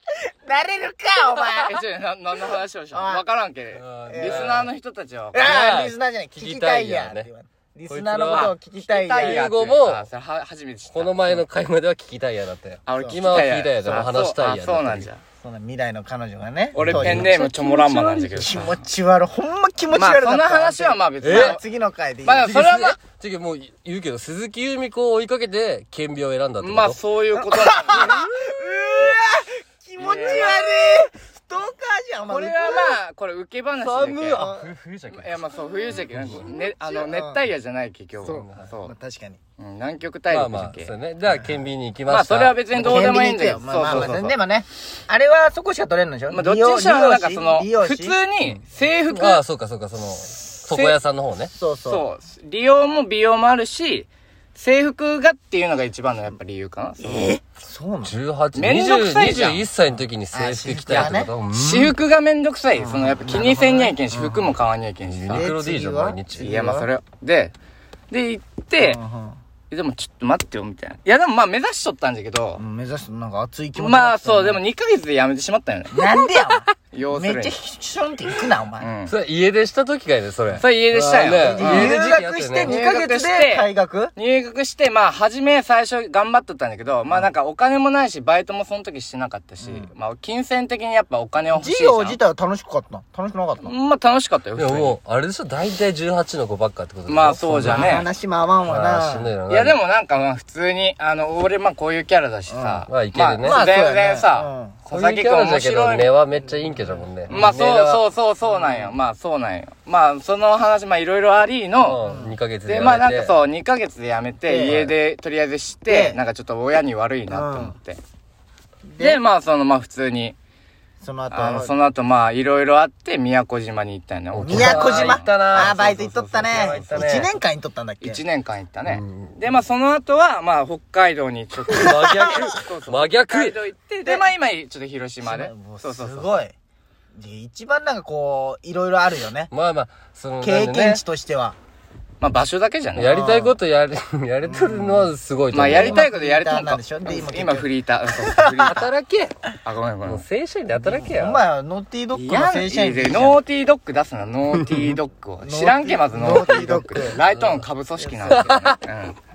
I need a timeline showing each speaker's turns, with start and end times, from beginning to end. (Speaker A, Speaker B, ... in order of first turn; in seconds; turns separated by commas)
Speaker A: 0.2-1.8, Speaker B: 1.6-5.6, Speaker A: 2.5-3.2, Speaker C: 3.8-4.7, Speaker A: 4.1-4.5, Speaker A: 5.3-9.5, Speaker C: 5.4-7.3, Speaker C: 7.9-8.6, Speaker B: 8.3-11.4, Speaker C: 9.2-10.1, Speaker C: 10.9-15.1, Speaker B: 12.9-15.2, Speaker A: 13.0-13.3, Speaker A: 13.8-14.1, Speaker A: 15.4-22.8, Speaker B: 16.8-18.8, Speaker C: 16.8-17.4, Speaker B: 19.9-21.6, Speaker C: 21.2-21.6, Speaker B: 22.2-23.0, Speaker C: 22.5-27.0, Speaker B: 26.6-28.3, Speaker A: 27.4-33.0, Speaker B: 30.0-30.6, Speaker B: 32.3-34.4, Speaker C: 33.8-36.5, Speaker A: 34.2-34.7, Speaker B: 35.1-38.9, Speaker A: 36.7-37.5, Speaker A: 38.2-39.4, Speaker C: 38.3-38.7, Speaker B: 39.6-40.9, Speaker C: 40.3-43.2, Speaker B: 42.1-44.4, Speaker A: 42.7-48.2, Speaker B: 46.3-49.4, Speaker C: 49.1-51.5, Speaker B: 50.6-51.0, Speaker A: 51.5-52.0, Speaker B: 51.9-57.4, Speaker A: 57.0-58.2, Speaker C: 58.0-61.9, Speaker B: 58.5-59.6, Speaker A: 60.3-61.3, Speaker B: 60.9-65.5, Speaker A: 62.8-64.6, Speaker C: 65.0-66.6, Speaker A: 65.3-66.9, Speaker B: 66.4-67.5, Speaker B: 68.1-69.0, Speaker A: 68.8-69.4, Speaker B: 69.7-72.6, Speaker A: 72.6-74.6, Speaker B: 73.8-76.2, Speaker A: 75.9-78.9, Speaker B: 76.8-77.6, Speaker B: 78.8-79.2, Speaker C: 79.1-82.8, Speaker B: 80.6-82.0, Speaker A: 80.9-84.1, Speaker B: 82.7-92.2, Speaker A: 89.6-89.9, Speaker A: 91.5-93.7, Speaker B: 93.6-95.0, Speaker C: 94.6-98.0, Speaker B: 97.1-98.1, Speaker A: 97.6-99.3, Speaker C: 98.7-99.8, Speaker B: 99.5-106.1, Speaker A: 102.5-102.9, Speaker C: 102.9-103.6, Speaker A: 103.4-104.8, Speaker C: 104.9-108.0, Speaker A: 106.4-107.5, Speaker B: 107.3-112.0, Speaker A: 108.5-109.0, Speaker C: 111.8-113.3, Speaker A: 112.0-112.4, Speaker B: 112.7-118.0, Speaker A: 114.5-115.0, Speaker A: 115.9-116.2, Speaker A: 117.3-117.8, Speaker A: 118.9-119.2, Speaker B: 119.0-120.4, Speaker A: 121.0-121.7, Speaker B: 121.3-127.2, Speaker C: 124.3-127.3, Speaker A: 124.4-128.2, Speaker B: 128.0-136.3, Speaker C: 128.9-129.5, Speaker C: 131.7-133.6, Speaker A: 131.8-132.5, Speaker A: 135.2-136.6, Speaker A: 137.2-139.5, Speaker C: 139.5-141.0, Speaker A: 140.4-141.6, Speaker B: 142.2-143.2, Speaker C: 143.0-146.1, Speaker A: 143.0-143.6, Speaker A: 144.4-145.1, Speaker B: 145.5-148.9, Speaker A: 145.7-147.7, Speaker A: 148.3-148.8, Speaker C: 148.7-149.4, Speaker B: 149.6-150.2, Speaker C: 150.1-151.4, Speaker A: 150.8-153.4, Speaker B: 152.1-159.2, Speaker A: 155.4-157.2, Speaker A: 158.0-158.4, Speaker C: 158.3-158.8